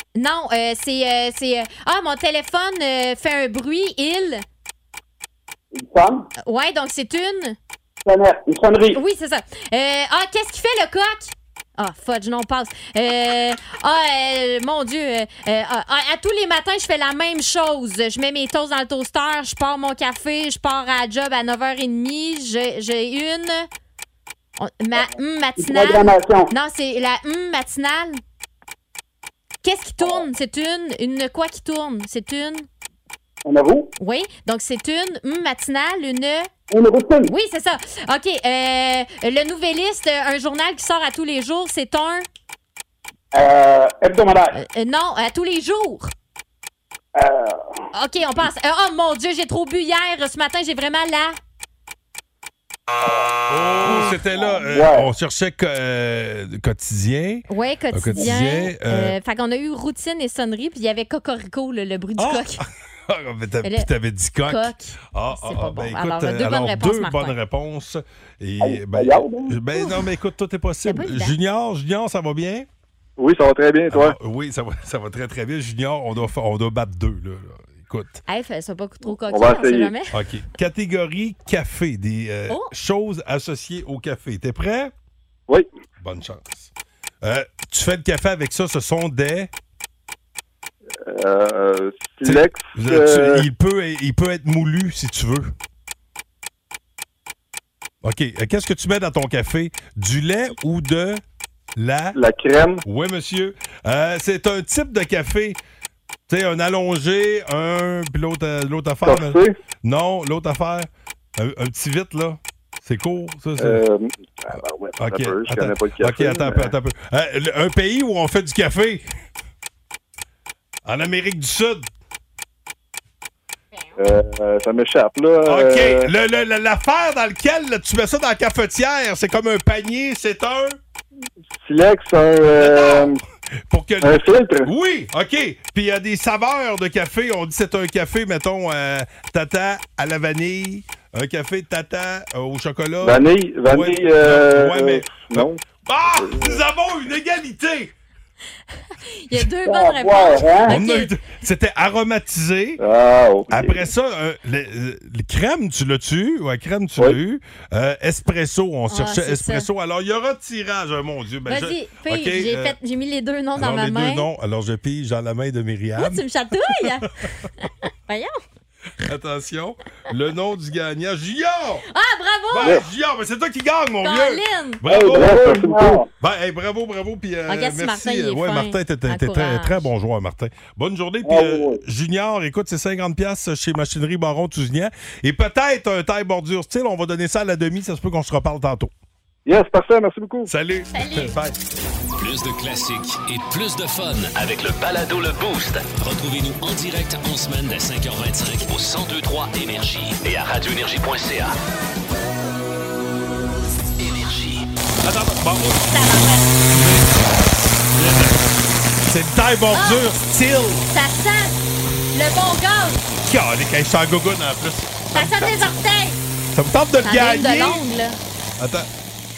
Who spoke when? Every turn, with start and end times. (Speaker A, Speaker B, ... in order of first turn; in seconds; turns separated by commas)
Speaker A: 0.1-4.4, Speaker B: 5.7-6.3, Speaker A: 6.4-7.5, Speaker B: 8.0-9.0, Speaker A: 8.9-23.7, Speaker A: 24.6-28.2, Speaker B: 25.6-26.5, Speaker A: 29.6-32.7, Speaker B: 30.0-30.2, Speaker B: 33.4-33.9, Speaker A: 34.0-36.5, Speaker B: 36.7-37.3, Speaker A: 37.2-42.3, Speaker B: 43.3-44.6, Speaker A: 44.5-46.1, Speaker B: 47.1-47.7, Speaker A: 47.9-51.4, Speaker B: 53.0-53.3, Speaker C: 53.5-59.2, Speaker B: 53.8-55.1, Speaker A: 53.9-54.1, Speaker A: 57.5-62.6, Speaker C: 62.2-72.7, Speaker A: 63.6-63.9, Speaker A: 64.4-67.3, Speaker B: 68.6-69.5, Speaker A: 70.8-71.3, Speaker D: 73.2-74.2, Speaker C: 73.9-78.2, Speaker A: 78.3-80.1, Speaker D: 79.2-79.9, Speaker C: 80.1-84.9, Speaker C: 86.0-86.7, Speaker C: 87.2-89.5, Speaker D: 91.0-93.5, Speaker C: 92.2-95.5, Speaker C: 98.0-101.2, Speaker C: 101.8-102.2, Speaker D: 102.1-102.8, Speaker C: 102.8-105.6, Speaker C: 106.3-113.8, Speaker D: 109.0-109.5, Speaker D: 113.6-116.7, Speaker C: 115.0-119.0, Speaker C: 120.8-121.9, Speaker D: 124.0-126.1, Speaker C: 125.4-130.8, Speaker D: 131.6-133.2, Speaker C: 132.5-147.9, Speaker D: 134.0-134.7, Speaker D: 143.0-145.6, Speaker D: 146.2-146.6, Speaker A: 149.1-151.1, Speaker B: 149.7-150.7, Speaker C: 150.7-152.8, Speaker D: 152.8-153.8, Speaker C: 153.5-162.8, Speaker A: 158.9-159.7, Speaker A: 161.5-164.3, Speaker C: 163.6-166.2, Speaker A: 166.0-167.1, Speaker A: 167.6-168.3, Speaker C: 169.0-171.8, Speaker A: 171.9-172.8, Speaker C: 172.5-188.9, Speaker A: 174.0-174.8, Speaker B: 174.8-176.1, Speaker D: 174.9-175.9, Speaker A: 177.5-179.9, Speaker B: 181.2-181.8, Speaker D: 189.4-190.5, Speaker C: 190.5-191.6, Speaker A: 190.9-191.3, Speaker E: 192.2-201.6, Speaker E: 204.0-204.6, Speaker C: 205.0-206.0, Speaker A: 205.9-206.6, Speaker C: 206.7-208.4, Speaker C: 209.0-210.8, Speaker A: 209.7-210.1, Speaker A: 210.9-211.6, Speaker A: 212.1-213.1, Speaker C: 213.2-215.7, Speaker A: 215.1-216.2, Speaker C: 216.5-217.8, Speaker A: 217.0-218.2, Speaker C: 218.6-218.9